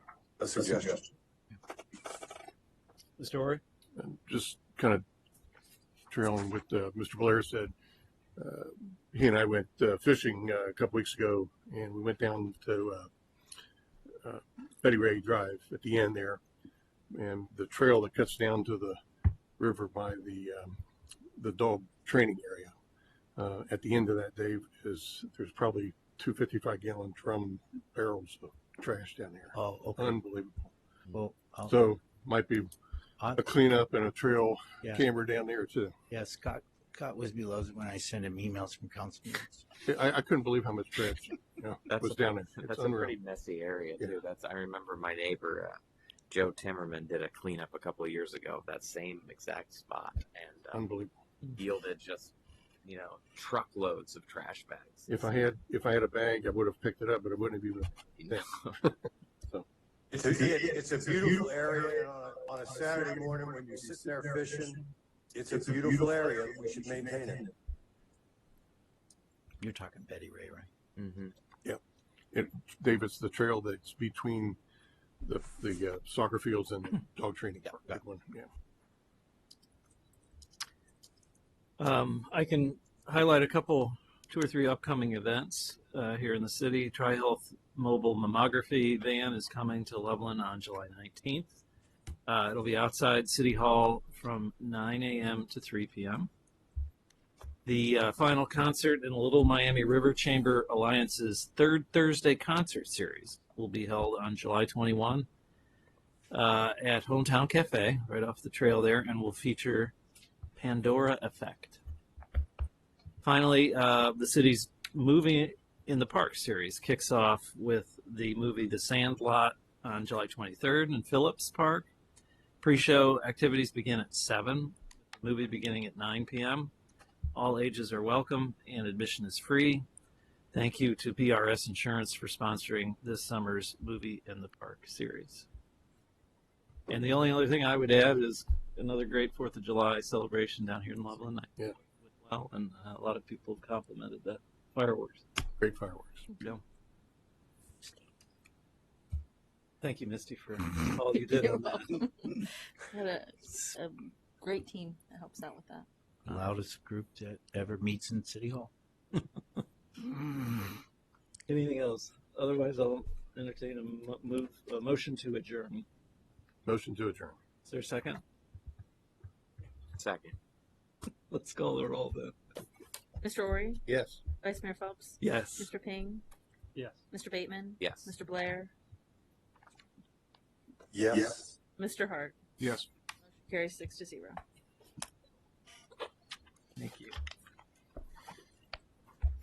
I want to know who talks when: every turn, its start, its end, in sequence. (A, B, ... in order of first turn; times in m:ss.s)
0:00.4-0:00.9 A
0:03.2-0:03.6 B
0:04.0-0:05.0 C
0:06.1-0:07.7 C
0:08.4-0:13.1 C
0:14.2-0:16.4 C
0:17.1-0:19.0 C
0:19.6-0:20.8 C
0:21.4-0:22.7 C
0:23.4-0:30.7 C
0:29.5-0:30.2 D
0:31.1-0:31.8 D
0:31.7-0:32.7 C
0:33.4-0:35.9 C
0:36.1-0:39.6 D
0:39.8-0:43.1 C
0:41.8-0:45.8 E
0:46.3-0:50.8 E
0:50.7-0:51.1 C
0:51.5-0:52.3 E
0:52.8-0:55.1 E
0:55.1-0:58.9 C
0:58.2-0:58.4 E
1:00.1-1:07.5 A
1:09.6-1:10.7 D
1:11.0-1:11.3 E
1:12.3-1:14.6 C
1:15.2-1:18.5 C
1:21.8-1:31.6 B
1:32.2-1:36.3 B
1:37.6-1:45.3 B
1:46.3-1:49.9 B
1:50.6-1:51.8 B
1:53.2-2:01.9 B
2:02.6-2:06.7 B
2:07.3-2:09.8 B
2:10.5-2:15.5 B
2:16.9-2:25.2 B
2:25.6-2:26.3 C
2:29.8-2:32.4 B
2:32.9-2:35.8 F
2:36.2-2:38.7 D
2:41.5-2:45.8 B
2:46.6-2:47.4 C
2:47.6-2:48.2 B
2:50.0-2:50.4 E
2:51.3-2:52.4 B
2:53.2-2:53.8 F
2:53.9-2:54.2 C
2:54.4-2:56.2 F
2:55.2-2:55.7 B
2:57.1-2:58.7 F
2:57.8-2:58.1 E
3:01.8-3:02.4 F
3:02.6-3:02.9 C
3:03.4-3:04.4 F
3:06.8-3:07.1 B